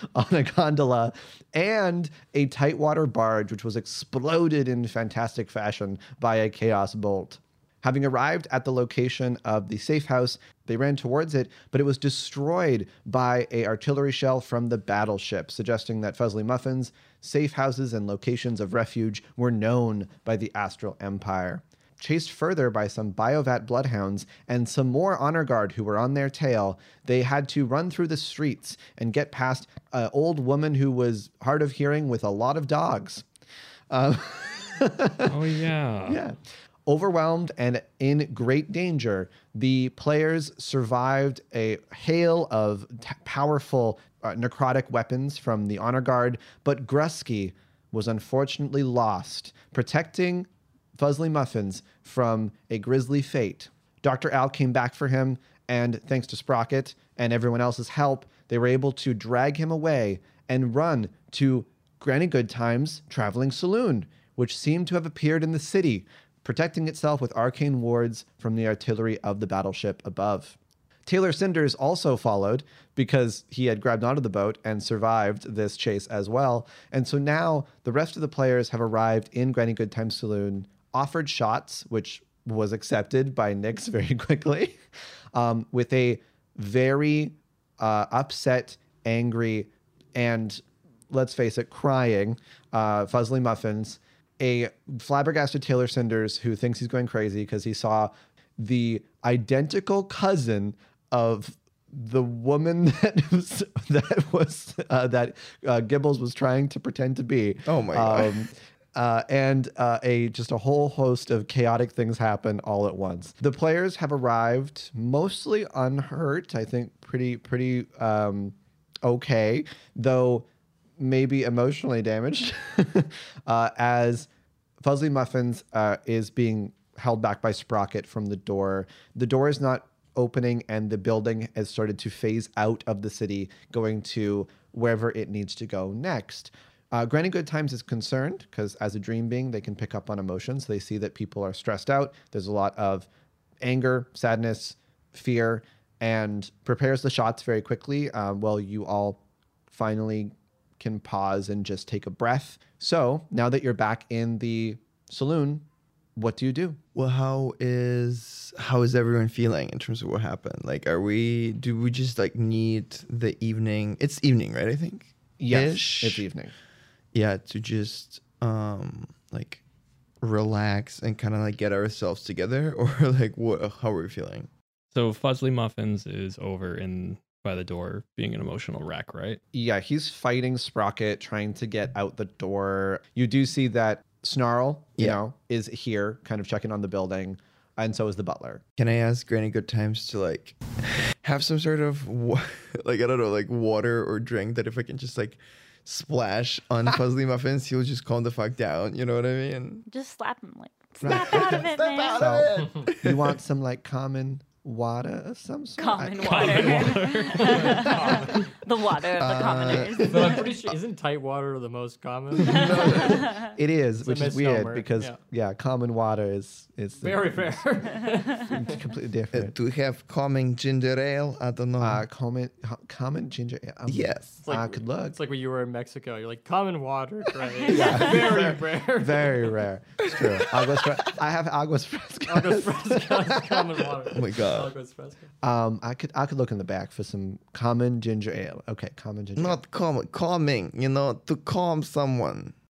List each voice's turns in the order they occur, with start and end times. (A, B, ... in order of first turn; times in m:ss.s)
0:00.1-0:33.2 A
0:33.9-0:35.4 A
0:35.3-0:36.2 B
0:36.0-1:24.8 A
1:25.3-2:00.5 A
1:47.7-1:48.5 C
2:01.0-2:04.3 A
2:04.8-2:23.1 A
2:23.6-2:36.8 A
2:37.0-2:46.3 C
2:45.4-2:46.5 A
2:47.1-2:49.6 C
2:50.2-2:54.5 C
2:54.9-2:59.4 B
2:59.5-3:08.6 A
3:08.8-3:19.8 C
3:19.9-3:22.3 D
3:21.0-3:23.4 C
3:21.0-3:21.6 A
3:22.2-3:26.9 A
3:22.6-3:22.8 E
3:25.8-3:30.5 D
3:26.2-3:28.0 B
3:27.4-3:28.5 E
3:29.0-3:30.7 C
3:30.0-3:33.2 E
3:32.3-3:33.2 C
3:32.5-3:33.5 D
3:33.4-3:37.6 A
3:34.0-3:35.2 E
3:37.0-3:38.8 E
3:38.4-3:39.5 A
3:39.3-3:42.0 C
3:41.8-3:45.2 A
3:43.9-3:44.4 C
3:44.4-3:49.6 E
3:47.5-3:48.3 D
3:47.7-3:53.9 A
3:50.2-3:50.8 C
3:52.3-3:55.3 E
3:54.1-3:54.7 C
3:55.4-3:59.6 A
3:59.4-4:02.5 C